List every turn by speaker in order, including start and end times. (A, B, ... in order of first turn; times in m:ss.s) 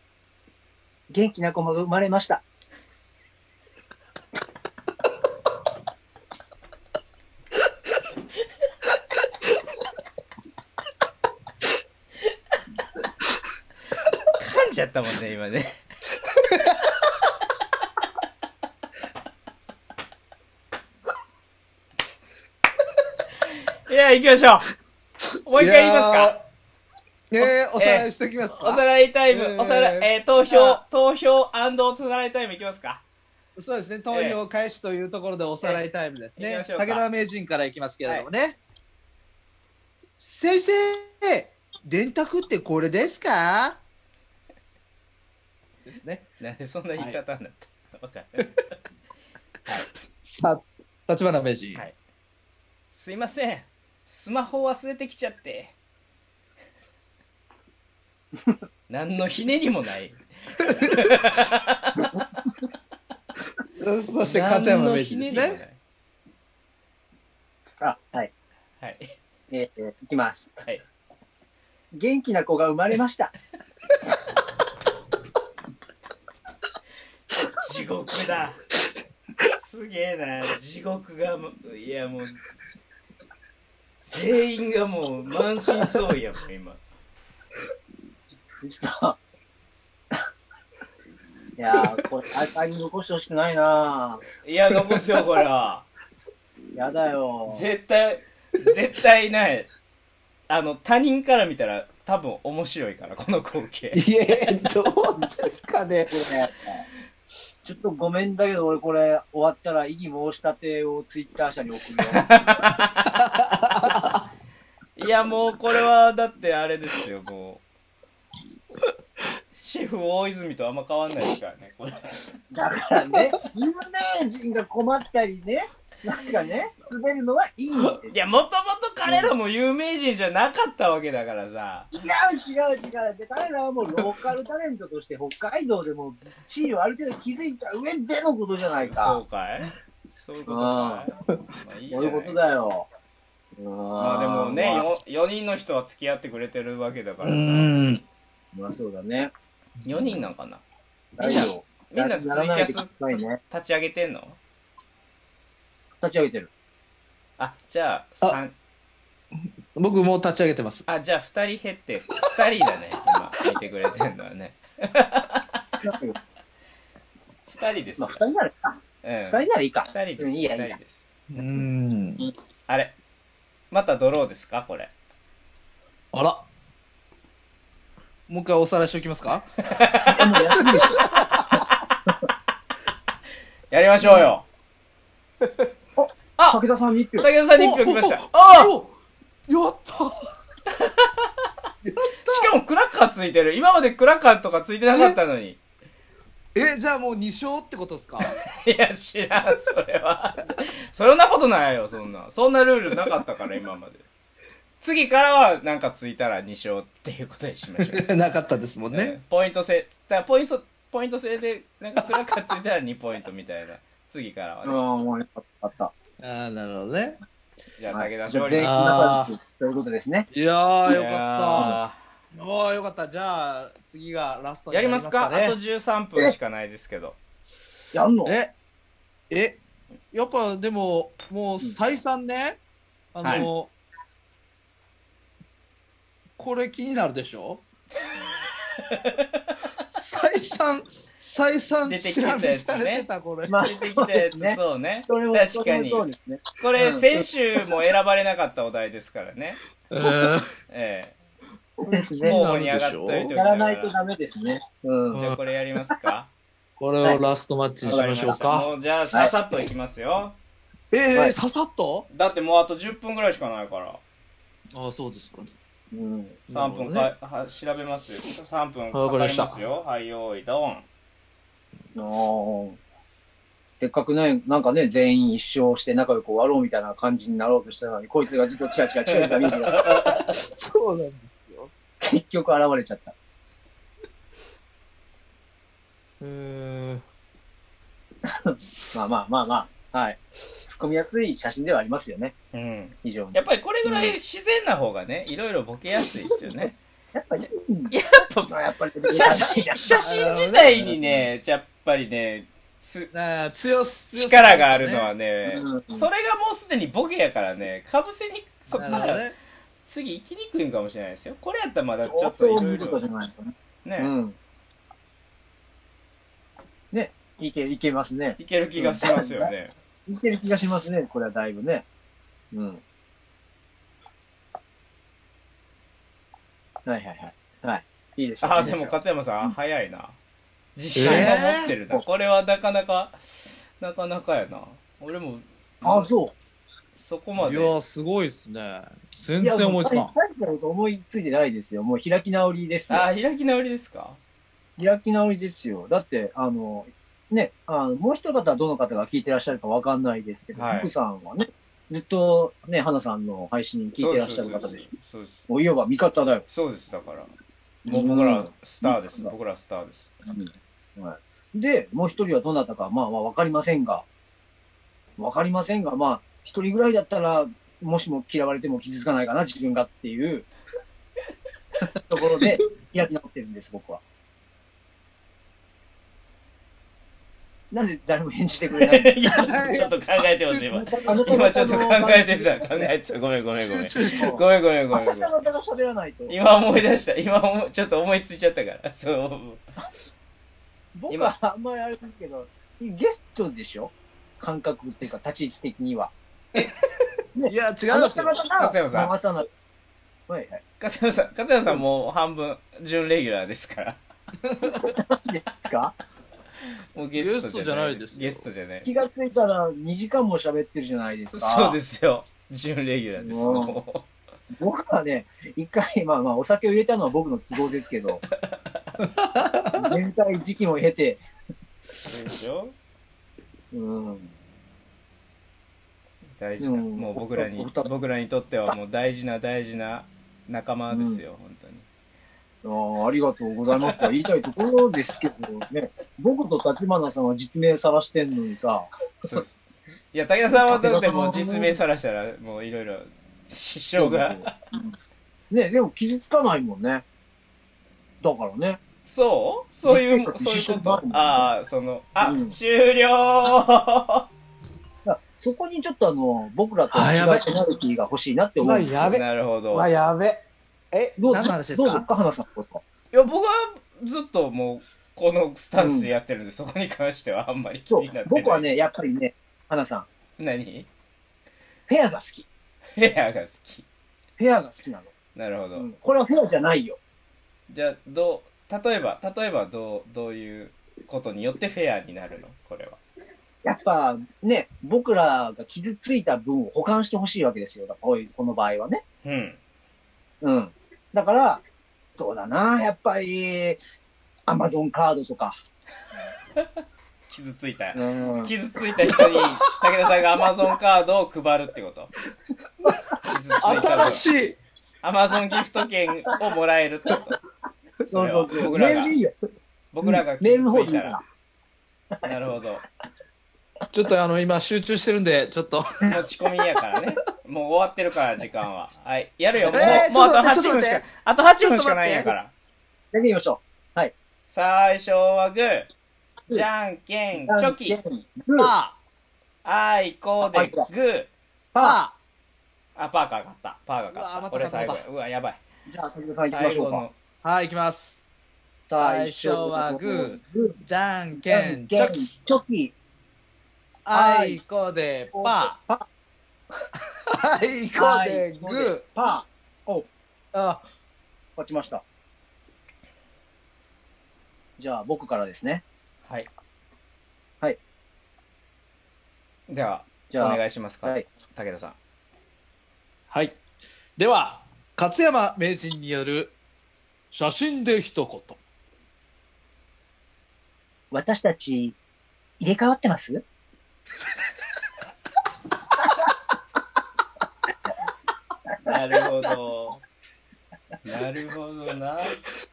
0:01.1-0:02.4 A
0:14.3-0:15.8 B
0:16.5-0:16.8 C
0:16.5-0:17.1 B
0:23.9-0:24.7 B
0:25.4-0:26.4 B
0:25.6-0:26.4 C
0:27.3-0:30.8 C
0:27.4-0:33.0 B
0:33.6-0:38.6 C
0:34.1-0:34.4 B
0:36.4-0:37.0 B
0:40.2-0:43.8 C
0:45.8-0:46.3 C
0:46.4-0:48.7 B
0:50.2-0:51.8 C
0:52.9-0:55.8 B
0:58.9-1:02.1 B
1:03.8-1:05.6 C
1:04.2-1:05.8 B
1:07.8-1:08.3 A
1:08.8-1:09.2 B
1:09.5-1:10.5 A
1:11.9-1:13.3 A
1:17.6-1:18.6 B
1:19.5-1:22.4 B
1:24.0-1:26.8 B
1:28.6-1:29.2 A
1:31.6-1:34.2 A
1:34.4-1:35.9 B
1:36.7-1:37.6 A
1:37.5-1:39.7 B
1:40.5-1:44.1 B
1:43.9-1:46.3 C
1:46.1-1:46.8 A
1:47.6-1:52.3 A
1:52.1-1:53.2 B
1:53.1-1:54.2 C
1:55.0-1:57.6 B
1:59.5-2:02.3 B
2:02.5-2:08.2 A
2:08.1-2:11.9 B
2:09.1-2:09.3 A
2:12.0-2:19.2 A
2:18.8-2:22.4 B
2:20.5-2:21.1 A
2:21.9-2:22.9 A
2:23.6-2:24.9 A
2:24.0-2:27.7 B
2:27.2-2:28.0 C
2:28.5-2:29.3 A
2:29.8-2:30.6 B
2:31.2-2:33.4 A
2:31.2-2:34.4 B
2:36.0-2:36.5 A
2:37.4-2:38.5 B
2:39.8-2:40.9 C
2:40.9-2:45.8 B
2:45.8-2:46.2 A
2:47.5-2:48.2 B
2:48.0-2:48.8 A
2:49.0-2:51.0 B
2:49.3-2:50.7 A
2:51.3-2:52.3 C
2:52.7-2:53.0 B
2:53.7-2:54.9 B
2:56.1-2:56.4 C
2:58.3-2:59.5 C
2:59.6-3:02.0 B
3:00.1-3:01.6 A
3:00.6-3:01.5 C
3:03.7-3:04.4 B
3:05.4-3:05.7 C
3:06.0-3:07.3 A
3:07.2-3:08.7 B
3:07.6-3:08.9 C
3:09.5-3:10.2 C
3:10.7-3:11.1 B
3:11.8-3:12.5 C
3:12.2-3:15.6 B
3:16.6-3:18.3 C
3:18.2-3:24.0 B
3:24.8-3:28.1 B
3:27.8-3:29.2 C
3:28.9-3:34.8 B
3:34.6-3:35.9 A
3:36.2-3:37.2 C
3:37.8-3:39.1 B
3:37.9-3:40.3 A
3:38.6-3:39.3 C
3:40.3-3:41.7 C
3:40.9-3:42.0 B
3:42.3-3:45.6 C
3:44.7-3:47.2 B
3:47.9-3:48.4 A
3:48.2-3:48.5 C
3:49.3-3:49.6 C
3:50.1-3:52.6 C
3:53.1-3:53.7 C
3:53.2-3:53.5 B
3:56.4-3:57.6 C
3:58.8-3:59.4 B
3:59.9-4:03.6 C
4:01.9-4:03.1 B
4:03.5-4:07.2 A
4:03.6-4:06.0 B
4:06.6-4:09.6 B
4:09.9-4:10.5 C
4:10.7-4:11.2 B
4:11.8-4:12.4 A
4:11.9-4:13.3 C
4:12.2-4:13.9 B
4:13.3-4:15.2 A
4:15.1-4:15.4 C
4:15.2-4:16.3 B
4:16.8-4:18.7 C
4:17.8-4:18.4 A
4:17.8-4:20.4 B
4:20.9-4:22.1 C
4:22.1-4:24.0 B
4:24.7-4:25.5 C
4:25.9-4:26.4 A
4:26.5-4:27.1 C
4:26.5-4:30.9 B
4:28.9-4:29.6 C
4:32.0-4:32.8 A
4:33.8-4:39.9 A
4:39.1-4:40.4 B
4:40.0-4:41.7 C
4:42.0-4:43.1 A
4:46.2-4:47.0 C
4:48.3-4:52.3 A
4:48.6-4:48.9 C
4:52.5-4:56.8 B
4:53.0-4:53.4 A
4:57.1-4:57.9 A
4:57.9-5:03.1 B
4:58.5-4:59.9 A
5:00.0-5:01.3 C
5:03.1-5:05.1 C
5:04.1-5:09.2 B
5:05.5-5:06.1 A
5:08.7-5:09.4 C
5:09.8-5:13.0 B
5:12.0-5:14.4 A
5:13.8-5:14.1 B
5:16.9-5:19.5 A
5:18.4-5:19.7 B
5:20.1-5:21.9 A
5:22.5-5:22.8 A
5:26.9-5:29.0 A
5:28.4-5:30.2 B
5:30.8-5:36.1 B
5:31.0-5:31.7 C
5:31.0-5:31.3 A
5:35.8-5:36.3 A
5:37.0-5:37.7 B
5:37.4-5:40.1 C
5:39.4-5:43.1 A
5:42.9-5:44.2 B
5:44.8-5:54.8 A
5:50.6-5:50.9 B
5:54.0-5:55.4 B
5:55.5-5:56.4 A
5:56.5-5:57.3 B
5:57.9-5:59.3 A
5:57.9-6:00.1 B
6:00.3-6:04.0 A
6:05.2-6:10.5 A
6:11.8-6:14.0 A
6:17.7-6:19.2 A
6:18.8-6:25.3 B
6:19.3-6:21.1 C
6:20.8-6:22.9 A
6:23.6-6:24.4 C
6:24.1-6:26.4 A
6:26.3-6:29.6 B
6:31.0-6:36.1 A
6:37.4-6:39.5 A
6:37.5-6:38.4 C
6:38.6-6:39.1 B
6:40.3-6:40.6 A
6:40.8-6:44.0 B
6:44.4-6:44.8 C
6:44.6-6:46.0 A
6:46.9-6:48.9 B
6:47.2-6:48.4 C
6:48.9-6:51.8 A
6:51.3-6:54.1 B
6:53.2-6:53.8 A
6:54.5-6:58.2 A
6:58.3-6:59.0 B
6:59.0-7:00.0 C
6:59.7-7:01.2 A
7:02.1-7:02.8 B
7:03.7-7:04.3 A
7:06.4-7:11.9 B
7:06.6-7:07.9 A
7:10.9-7:11.2 A
7:12.6-7:18.9 A
7:19.2-7:24.5 B
7:20.5-7:21.8 A
7:24.0-7:24.9 A
7:25.5-7:27.0 A
7:28.2-7:28.8 A
7:29.0-7:34.3 B
7:29.9-7:31.5 A
7:32.2-7:32.6 A
7:35.0-7:39.1 A
7:36.9-7:37.4 C
7:38.6-7:42.1 C
7:39.1-7:39.9 B
7:41.2-7:42.8 A
7:43.1-7:48.6 B
7:45.8-7:46.1 A
7:47.9-7:50.1 A
7:50.4-7:50.9 B
7:51.9-7:52.5 A
7:53.0-7:53.9 B
7:54.4-7:55.1 A
7:55.4-7:55.9 B
7:55.8-7:57.0 A
7:57.7-8:03.0 B
8:03.6-8:09.0 A
8:09.2-8:09.6 B
8:10.4-8:11.6 A
8:12.2-8:13.8 A
8:14.5-8:15.6 A
8:17.3-8:22.1 B
8:18.0-8:18.5 A
8:19.0-8:19.4 C
8:23.1-8:24.6 C
8:23.3-8:24.3 B
8:25.0-8:27.4 B
8:28.1-8:29.3 A
8:28.1-8:29.2 B
8:29.9-8:31.2 B
8:30.4-8:31.2 A
8:32.2-8:32.8 B
8:33.9-8:36.1 C
8:36.1-8:42.5 B
8:39.7-8:40.0 A
8:39.7-8:41.1 C
8:41.6-8:42.3 C
8:43.1-8:44.1 A
8:44.5-8:45.9 B
8:46.5-8:48.0 B
8:47.4-8:48.7 A
8:48.6-8:49.0 C
8:49.6-8:51.3 B
8:50.5-8:50.9 A
8:51.7-8:52.0 A
8:51.8-8:52.2 C
8:53.0-8:55.6 B
8:54.1-8:55.0 C
8:55.9-8:57.0 A
8:56.5-8:57.1 B
8:57.4-8:58.2 C
8:58.9-9:00.8 A
8:59.0-9:02.2 C
9:01.4-9:02.9 A
9:04.0-9:05.8 C
9:04.1-9:04.6 A
9:05.3-9:06.0 A
9:07.3-9:09.0 C
9:08.0-9:10.1 A
9:10.5-9:10.8 C
9:11.6-9:12.0 A
9:14.8-9:15.8 A
9:19.7-9:22.0 B
9:20.3-9:21.2 A
9:23.3-9:23.6 C
9:24.2-9:26.6 C
9:27.3-9:28.6 C
9:31.1-9:32.0 A
9:32.6-9:33.4 A
9:38.9-9:40.0 B
9:41.0-9:42.4 B